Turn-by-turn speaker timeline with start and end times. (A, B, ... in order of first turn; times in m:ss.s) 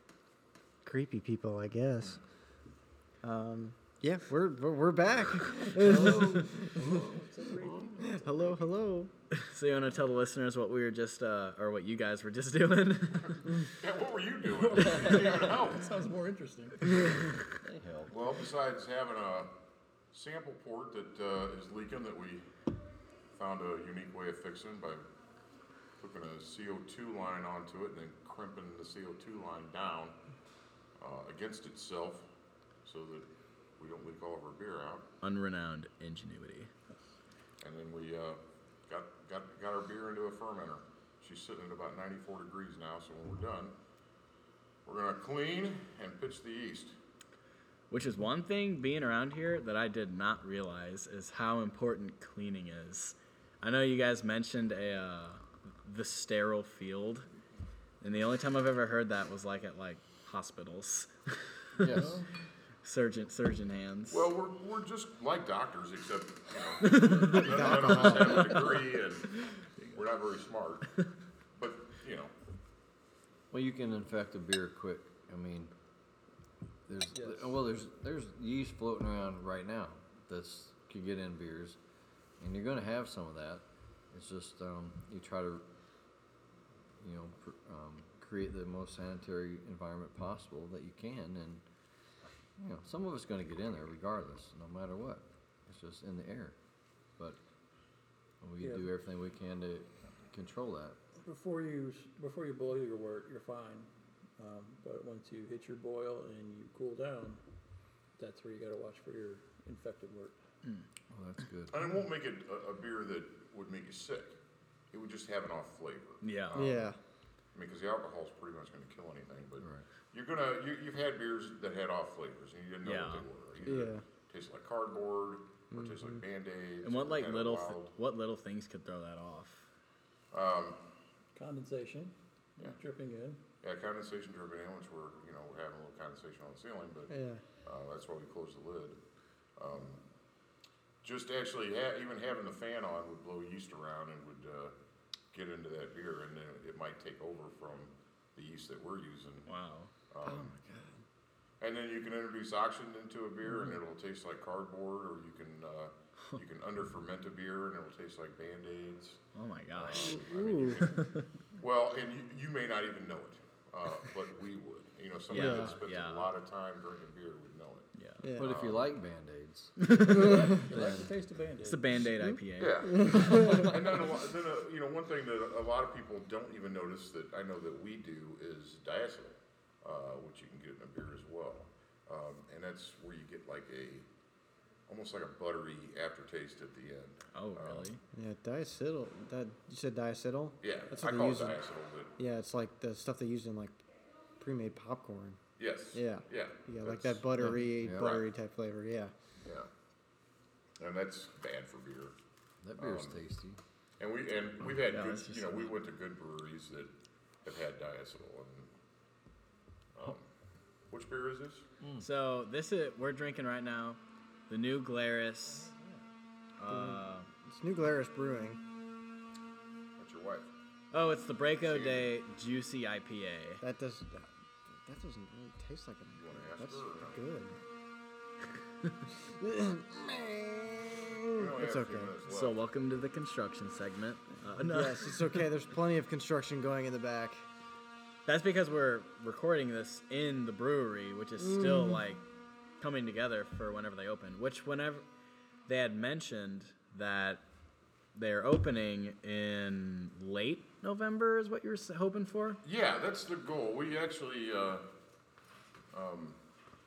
0:00.8-0:02.2 A
0:03.2-0:06.9 A
0:05.5-0:08.2 B
0:06.1-0:08.7 C
0:08.0-0:09.1 A
0:09.3-0:13.5 D
0:13.6-0:16.0 E
0:14.6-0:17.0 C
0:14.7-0:15.3 B
0:16.9-0:18.1 B
0:18.1-0:19.5 E
0:20.1-0:22.4 E
0:23.3-0:25.0 E
0:26.0-0:30.2 E
0:31.0-0:32.2 E
0:32.8-0:33.2 E
0:33.8-0:35.1 E
0:35.2-0:36.7 D
0:37.6-0:43.7 E
0:44.8-0:46.9 E
0:47.9-0:57.2 D
0:58.0-1:02.1 D
1:01.8-1:02.2 B
1:01.9-1:02.2 C
1:02.8-1:04.3 D
1:04.1-1:10.9 E
1:06.8-1:08.4 D
1:07.2-1:08.5 A
1:11.6-1:12.3 E
1:13.5-1:15.7 B
1:16.9-1:21.8 B
1:17.1-1:17.5 C
1:22.4-1:25.6 B
1:27.0-1:31.6 B
1:32.6-1:36.6 B
1:38.4-1:41.0 B
1:38.6-1:38.9 C
1:41.2-1:47.4 C
1:48.2-1:50.3 C
1:51.1-1:51.8 B
1:51.7-1:54.4 E
1:54.9-1:56.8 E
1:56.2-1:56.8 D
1:56.5-1:57.0 A
1:57.5-2:07.9 E
2:02.8-2:03.2 D
2:03.6-2:04.0 A
2:05.7-2:06.1 A
2:06.8-2:09.7 D
2:10.3-2:10.8 E
2:11.4-2:13.4 C
2:13.6-2:19.0 E
2:17.1-2:17.4 A
2:19.6-2:20.0 E
2:21.0-2:24.7 E
2:25.3-2:29.5 E
2:29.4-2:29.9 D
2:30.1-2:30.6 E
2:30.2-2:31.0 A
2:31.6-2:39.2 E
2:39.3-2:40.2 D
2:39.8-2:48.9 E
2:39.9-2:40.9 A
2:45.3-2:46.3 D
2:45.3-2:45.8 A
2:48.0-2:48.3 D
2:48.2-2:48.5 A
2:48.4-2:51.2 B
2:49.8-2:50.4 D
2:50.0-2:52.0 C
2:50.1-2:50.6 A
2:51.6-2:53.7 D
2:52.2-2:53.9 A
2:52.6-3:04.1 E
3:04.9-3:07.9 E
3:07.3-3:08.0 D
3:08.1-3:11.6 A
3:10.6-3:12.1 E
3:12.2-3:13.8 A
3:14.4-3:15.4 A
3:15.6-3:17.2 E
3:15.9-3:19.1 A
3:17.4-3:18.2 B
3:17.9-3:18.3 E
3:19.4-3:19.7 E
3:20.8-3:22.1 E
3:22.6-3:23.6 B
3:22.8-3:23.2 E
3:24.0-3:26.9 E
3:24.8-3:25.7 D
3:27.4-3:28.7 E
3:29.9-3:30.2 E
3:30.9-3:31.6 E
3:32.0-3:35.7 D
3:36.6-3:37.3 D
3:36.7-3:38.6 A
3:40.0-3:40.5 E
3:40.9-3:43.6 D
3:41.6-3:42.1 E
3:43.6-3:47.6 A
3:46.2-3:47.2 E
3:49.2-3:52.1 A
3:51.3-3:52.6 E
3:52.3-3:55.4 D
3:54.6-3:57.5 A
3:58.2-4:02.2 D
4:01.4-4:02.0 A
4:02.8-4:05.0 D
4:05.6-4:07.5 D
4:08.1-4:12.6 D
4:12.6-4:14.8 E
4:15.9-4:16.4 E